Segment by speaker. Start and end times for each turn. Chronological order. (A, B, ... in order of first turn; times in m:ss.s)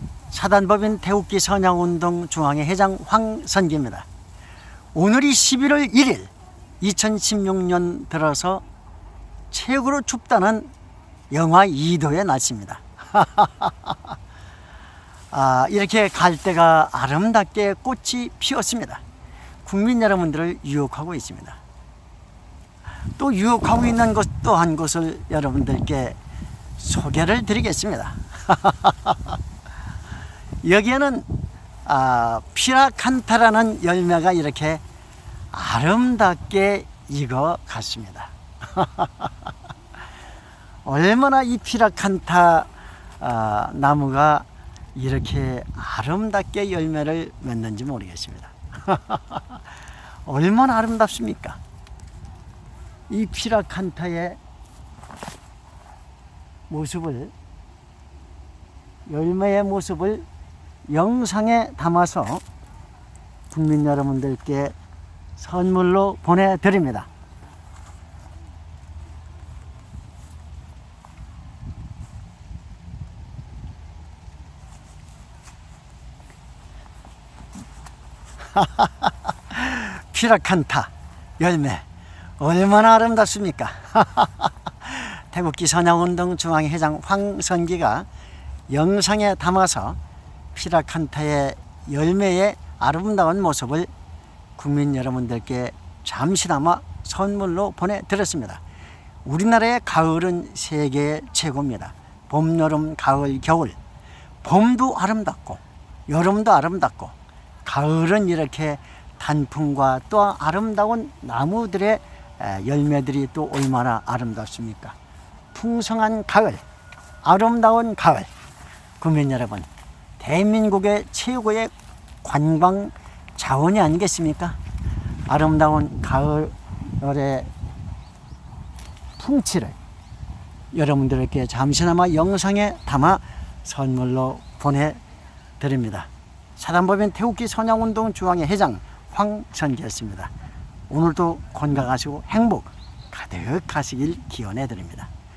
0:00.3-0:04.0 A
0:04.9-0:08.6 A
0:09.5-0:10.7 A
0:11.3-0:14.0 A
0:15.3-0:19.0 A
0:19.6-0:21.6 A
0:23.2-0:26.2 A
0:26.8-0:29.4 A
0:30.6-0:31.3 A
0:31.8-0:34.8 A
0:35.5-0:39.3 A
0:40.8-0:42.7 A
0:43.2-0:49.6 A
0:50.2-0:51.6 A
0:53.1-0:54.4 A
0:56.7-0:57.3 A
0:59.1-1:00.2 A
1:00.9-1:02.4 A
1:03.5-1:04.7 A
1:05.4-1:07.1 A
1:18.4-1:21.8 A
1:22.4-1:28.1 A
1:28.7-1:30.0 A
1:30.5-1:33.9 A
1:34.6-1:38.6 A
1:39.2-1:43.8 A
1:44.4-1:47.1 A
1:47.6-1:54.9 A
1:55.5-1:56.6 A
1:57.2-1:58.3 A
1:59.0-1:59.7 A
2:00.2-2:01.7 A
2:02.2-2:04.6 A
2:05.3-2:07.5 A
2:09.2-2:09.8 A
2:10.7-2:15.0 A
2:15.6-2:20.3 A
2:20.9-2:25.1 A